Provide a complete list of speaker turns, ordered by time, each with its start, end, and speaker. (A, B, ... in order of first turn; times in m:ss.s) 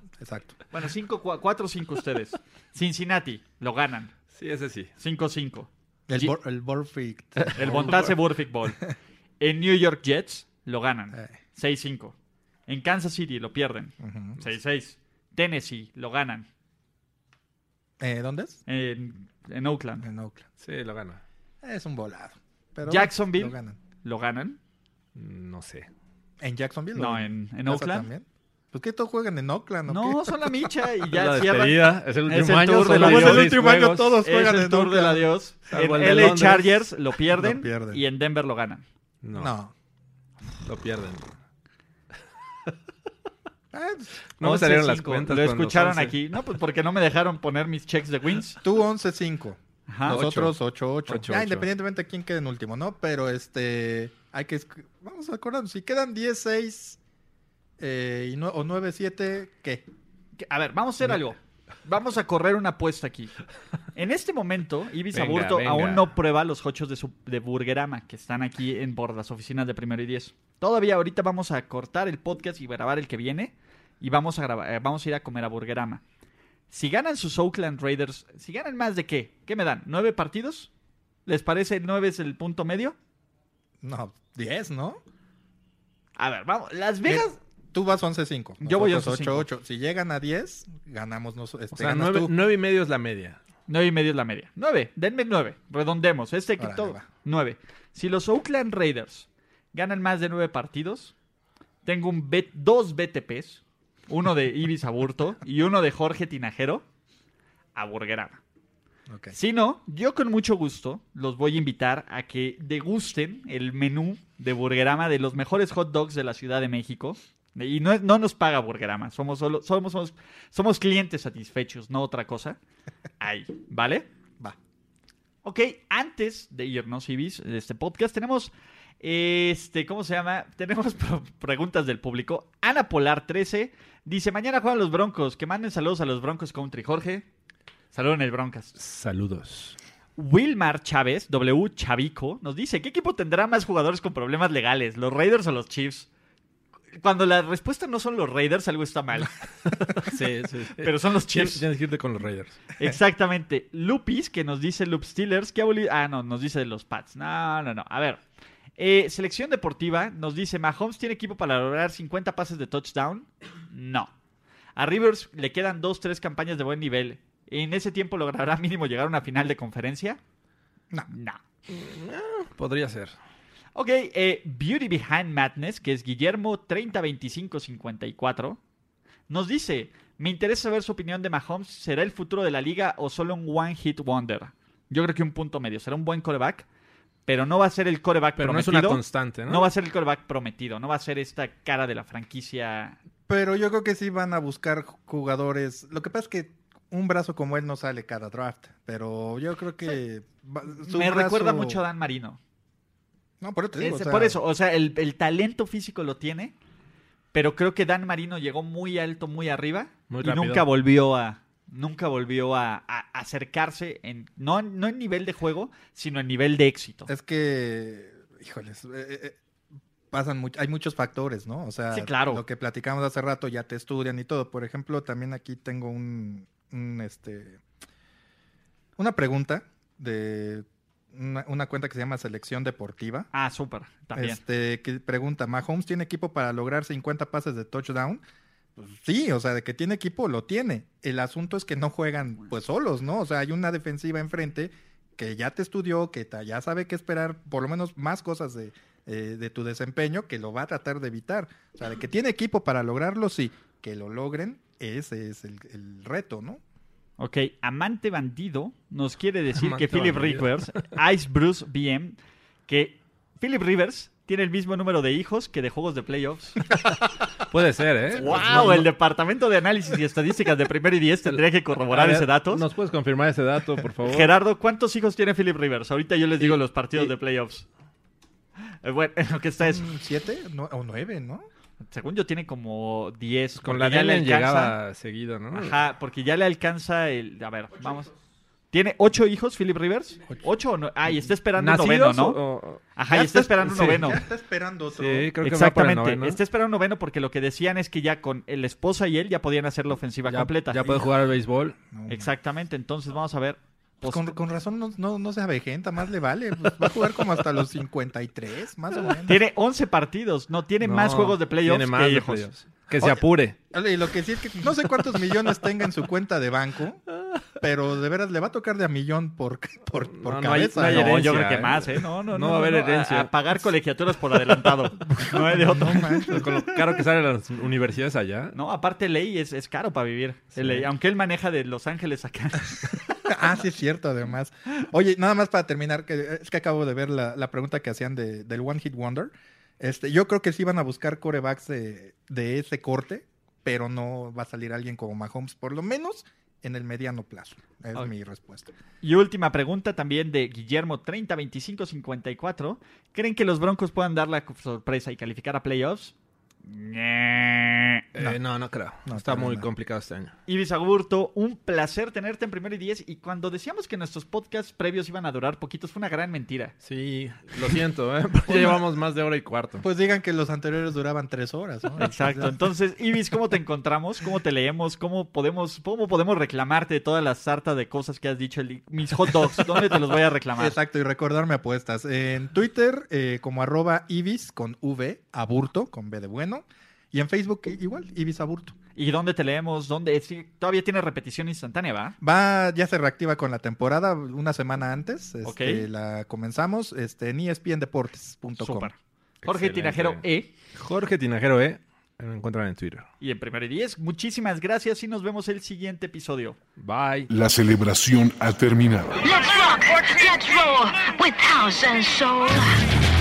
0:00.2-0:00.6 A
0:00.7-0:04.1 B
0:04.3-0:04.9 C
0:05.0-0:06.3 B
0:06.1-0:08.2 A
0:07.4-0:08.8 B
0:09.4-0:12.2 B
0:12.7-0:16.5 B
0:14.0-0:14.4 A
0:18.0-0:18.6 A
0:18.7-0:20.0 B
0:20.0-0:20.4 A
0:20.6-0:21.2 C
0:21.6-0:23.8 A
0:22.9-0:24.6 B
0:25.2-0:25.9 C
0:26.4-0:30.6 A
0:27.0-0:28.1 B
0:29.9-0:38.8 B
0:31.1-0:34.2 C
0:32.8-0:35.3 A
0:35.7-0:36.7 C
0:35.9-0:36.8 A
0:37.3-0:38.0 A
0:39.2-0:39.5 C
0:39.4-0:39.7 A
0:40.6-0:41.3 C
0:43.7-0:44.2 A
0:44.4-0:46.2 C
0:44.4-0:48.6 B
0:48.6-0:57.0 A
0:49.9-0:50.2 B
0:50.1-0:50.5 C
0:51.1-0:51.7 C
0:57.8-0:59.8 A
1:00.4-1:03.3 B
1:03.9-1:16.0 B
1:05.1-1:06.1 C
1:16.7-1:20.7 B
1:21.3-1:23.0 B
1:23.8-1:25.0 A
1:26.2-1:27.4 B
1:27.0-1:32.3 A
1:28.6-1:29.5 B
1:31.7-1:33.4 C
1:33.7-1:41.1 B
1:36.6-1:37.1 A
1:41.8-1:46.8 B
1:47.8-1:48.4 B
1:49.1-1:49.4 A
1:49.3-2:02.6 B
2:03.2-2:04.1 B
2:05.4-2:17.2 B
2:17.9-2:18.8 B
2:18.8-2:19.8 C
2:20.2-2:26.1 B
2:27.0-2:29.4 B
2:29.8-2:32.6 C
2:30.8-2:31.6 B
2:32.8-2:38.2 B
2:38.8-2:44.1 B
2:44.8-2:50.2 B
2:51.1-2:51.4 B
2:51.7-2:53.1 C
2:53.8-2:58.6 B
2:59.3-3:06.7 B
3:07.3-3:13.0 B
3:08.4-3:09.7 C
3:13.3-3:21.8 A
3:20.8-3:22.4 B
3:23.4-3:24.4 A
3:23.8-3:26.5 B
3:27.3-3:37.1 B
3:30.1-3:30.6 C
3:37.1-3:39.4 A
3:40.1-3:47.6 A
3:41.9-3:42.4 B
3:49.0-3:53.3 A
3:53.3-3:54.4 B
3:54.2-3:58.2 A
3:58.8-4:16.6 A
4:17.2-4:26.6 B
4:19.6-4:20.9 C
4:27.5-4:28.9 C
4:28.2-4:32.7 B
4:31.3-4:34.3 C
4:34.0-4:37.6 B
4:36.4-4:37.1 C
4:38.8-4:39.9 B
4:39.6-4:41.5 A
4:41.8-4:44.8 B
4:43.6-4:45.8 C
4:45.5-4:48.1 B
4:48.7-4:52.4 B
4:51.6-4:52.8 C
4:53.0-4:54.2 B
4:53.1-4:55.3 A
4:53.7-4:54.0 C
4:54.9-4:56.4 C
4:55.4-5:01.0 B
5:00.3-5:01.8 C
5:01.9-5:02.3 A
5:02.1-5:04.3 B
5:04.0-5:09.4 A
5:09.3-5:12.5 B
5:10.8-5:13.6 C
5:13.0-5:21.2 A
5:20.1-5:23.3 C
5:20.8-5:26.6 B
5:25.5-5:26.5 A
5:26.2-5:28.6 C
5:28.5-5:33.4 B
5:30.6-5:30.9 C
5:33.2-5:48.7 A
5:49.0-5:58.0 B
5:58.1-6:00.3 C
5:59.0-5:59.7 A
6:00.5-6:06.7 B
6:06.8-6:09.9 C
6:09.8-6:12.6 A
6:12.0-6:20.8 B
6:20.6-6:28.8 A
6:29.0-6:32.2 B
6:32.2-6:38.9 A
6:35.4-6:35.9 B
6:38.6-6:40.5 B
6:39.4-6:40.2 C
6:40.7-6:43.1 C
6:43.2-6:46.6 B
6:46.8-6:47.3 C
6:47.3-6:49.2 D
6:49.2-6:52.8 E